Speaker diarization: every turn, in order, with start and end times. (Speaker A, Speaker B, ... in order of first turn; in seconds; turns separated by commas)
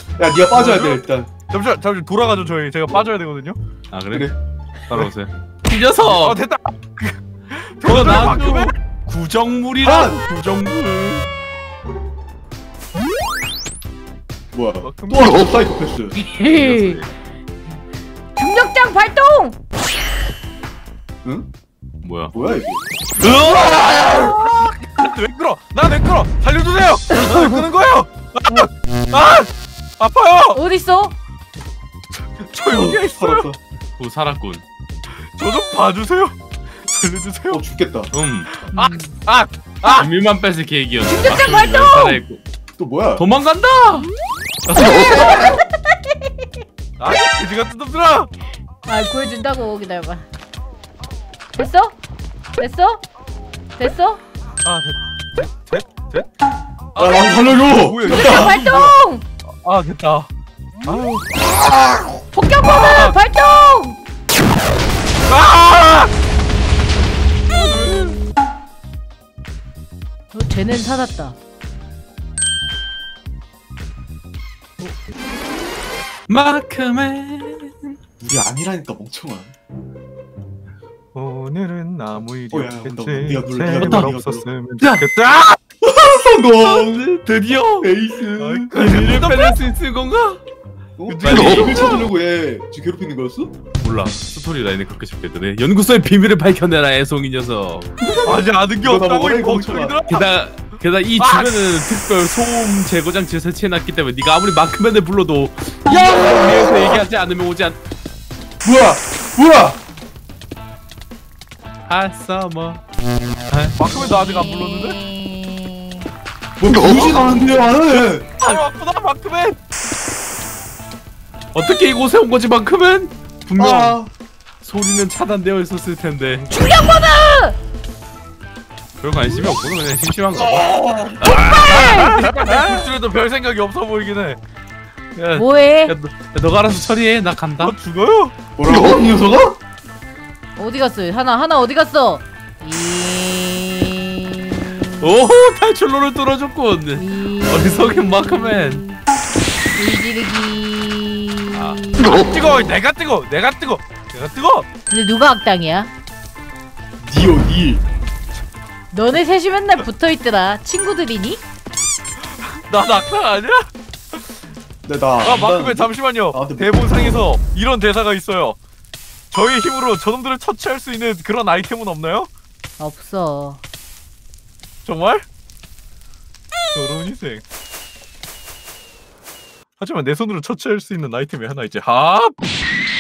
Speaker A: 0.2-1.4, Speaker B: 0.5-3.6, Speaker C: 3.9-4.4, Speaker C: 4.9-6.4, Speaker B: 6.0-8.7, Speaker C: 7.8-11.3, Speaker A: 9.8-10.2, Speaker A: 14.5-16.2, Speaker B: 14.8-15.5, Speaker D: 16.1-17.0, Speaker C: 16.4-17.1, Speaker D: 18.4-19.6, Speaker C: 22.0-22.3, Speaker A: 22.3-22.8, Speaker B: 23.2-30.6, Speaker D: 27.1-27.6, Speaker D: 30.5-31.1, Speaker B: 32.1-33.5, Speaker A: 32.7-33.6, Speaker C: 34.0-34.6, Speaker B: 35.1-37.6, Speaker A: 37.5-38.1, Speaker C: 38.1-38.5, Speaker B: 38.6-40.1, Speaker D: 38.7-39.2, Speaker C: 39.9-42.4, Speaker D: 41.1-42.2, Speaker A: 42.8-43.3, Speaker C: 43.2-44.1, Speaker B: 44.7-45.3, Speaker D: 44.8-46.0, Speaker B: 47.0-48.3, Speaker D: 48.9-50.2, Speaker D: 51.5-52.0, Speaker D: 52.6-53.0, Speaker D: 53.8-54.2, Speaker B: 54.6-56.3, Speaker B: 57.0-59.0, Speaker A: 57.0-58.6, Speaker D: 58.0-59.2, Speaker B: 59.5-60.3, Speaker B: 60.9-61.4, Speaker A: 61.5-62.2, Speaker D: 62.4-64.0, Speaker B: 62.5-63.1, Speaker B: 65.3-66.1, Speaker B: 67.6-68.2, Speaker D: 70.3-71.4, Speaker C: 76.3-78.0, Speaker A: 78.2-79.5, Speaker B: 81.1-85.6, Speaker A: 82.5-84.5, Speaker C: 83.7-84.1, Speaker A: 85.8-87.1, Speaker C: 86.6-87.9, Speaker A: 87.8-88.9, Speaker B: 88.4-89.6, Speaker C: 88.7-90.4, Speaker A: 91.0-93.5, Speaker B: 91.1-91.9, Speaker C: 93.8-97.9, Speaker A: 98.1-100.0, Speaker B: 98.2-100.3, Speaker C: 100.1-107.8, Speaker B: 101.2-101.6, Speaker A: 105.9-107.0, Speaker A: 108.6-109.8, Speaker C: 111.9-112.8, Speaker C: 113.5-114.1, Speaker B: 113.8-115.0, Speaker D: 114.5-115.6, Speaker A: 116.6-118.2, Speaker C: 116.8-117.5, Speaker B: 118.4-119.6, Speaker C: 121.5-124.0, Speaker A: 123.6-124.1, Speaker C: 124.6-126.5, Speaker D: 126.5-127.6, Speaker C: 129.0-132.9, Speaker A: 130.3-131.2, Speaker D: 131.3-132.2, Speaker B: 131.4-134.4, Speaker C: 135.2-137.8, Speaker D: 135.3-135.9, Speaker B: 137.6-138.3, Speaker A: 138.6-139.6, Speaker D: 140.6-145.1, Speaker C: 145.0-148.8, Speaker D: 147.0-149.0, Speaker D: 149.8-152.7, Speaker C: 151.5-152.0, Speaker B: 152.1-154.7, Speaker D: 154.9-155.9, Speaker A: 157.0-157.8, Speaker D: 158.9-161.4, Speaker B: 162.4-163.7, Speaker A: 164.8-167.1, Speaker B: 165.2-168.6, Speaker B: 169.3-172.3, Speaker D: 172.8-173.6, Speaker B: 174.8-175.2, Speaker B: 176.7-177.4, Speaker B: 179.8-182.3